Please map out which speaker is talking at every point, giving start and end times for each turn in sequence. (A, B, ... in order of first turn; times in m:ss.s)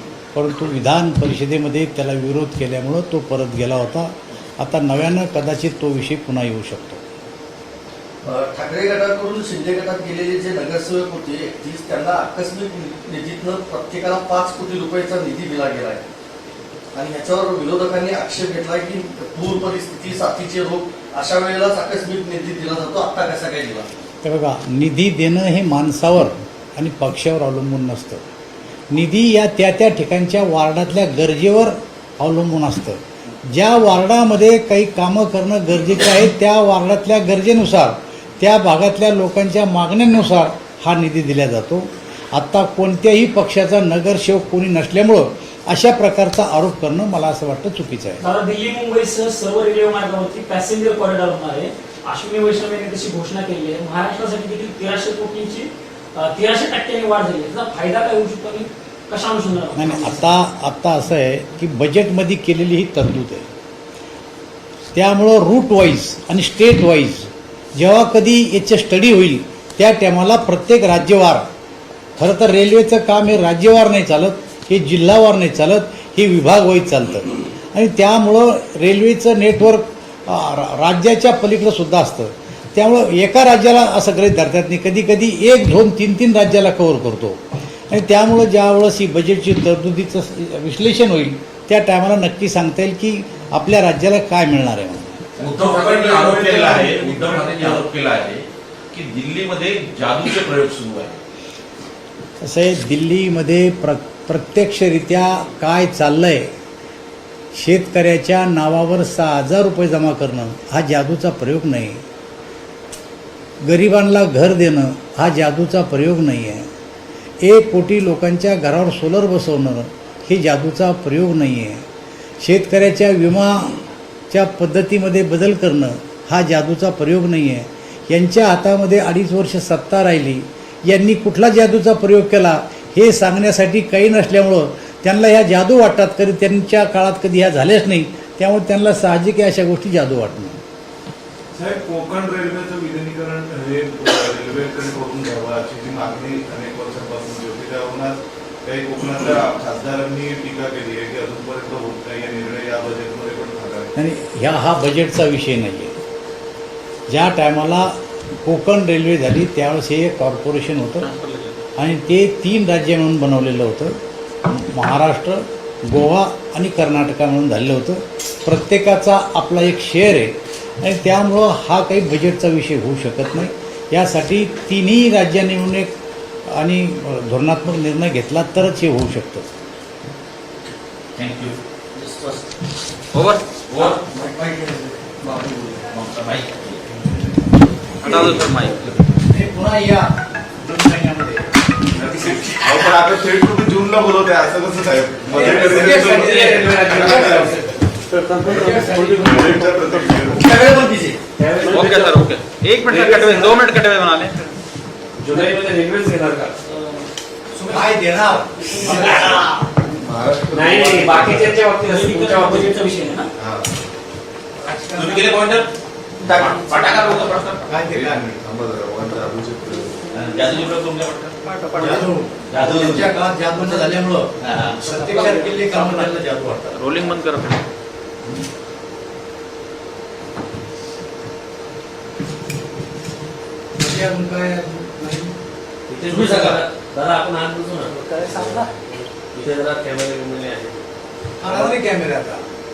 0:00.3-0:07.0 A
0:08.2-0:16.1 B
0:16.9-0:23.8 B
0:24.2-0:28.2 A
0:28.9-0:48.2 A
0:48.2-1:00.3 C
0:59.7-1:03.5 A
1:04.9-1:11.4 A
1:12.2-1:35.2 A
1:35.4-1:41.2 D
1:35.4-1:37.8 E
1:42.4-1:46.5 A
1:47.5-1:52.0 A
1:53.6-1:56.6 A
1:57.4-2:01.8 A
2:02.4-2:03.8 A
2:04.3-2:20.6 A
2:21.5-2:33.9 E
2:34.0-2:36.0 A
2:37.1-2:41.1 A
2:41.0-2:41.6 F
2:41.8-2:55.9 A
2:56.5-2:59.4 A
3:01.2-3:01.6 D
3:01.9-3:02.5 B
3:03.1-3:03.4 F
3:03.7-3:04.0 D
3:03.7-3:05.8 B
3:05.9-3:06.8 D
3:08.0-3:09.0 F
3:08.0-3:08.9 D
3:09.2-3:11.4 A
3:12.0-3:17.6 E
3:15.3-3:17.5 A
3:15.4-3:17.6 G
3:18.1-3:19.5 G
3:18.4-3:19.7 A
3:18.4-3:20.5 E
3:20.3-3:21.2 B
3:21.4-3:22.3 G
3:21.6-3:24.5 F
3:22.9-3:23.6 G
3:25.3-3:26.6 G
3:27.6-3:29.7 A
3:28.8-3:29.4 G
3:29.9-3:31.6 E
3:30.5-3:32.7 G
3:31.7-3:33.3 C
3:33.4-3:33.7 E
3:34.6-3:35.4 A
3:34.9-3:35.7 D
3:36.2-3:37.7 D
3:37.7-3:38.2 A
3:37.9-3:40.0 E
3:40.1-3:41.4 D
3:41.4-3:42.1 F
3:41.7-3:46.9 A
3:42.5-3:43.2 D
3:44.4-3:45.3 D
3:45.0-3:46.1 F
3:46.7-3:47.6 F
3:53.8-3:55.3 A
3:55.9-3:58.1 G
3:56.1-3:56.6 B
3:58.1-3:58.6 A
3:59.3-4:00.7 G
4:01.4-4:02.4 A
4:01.5-4:01.8 G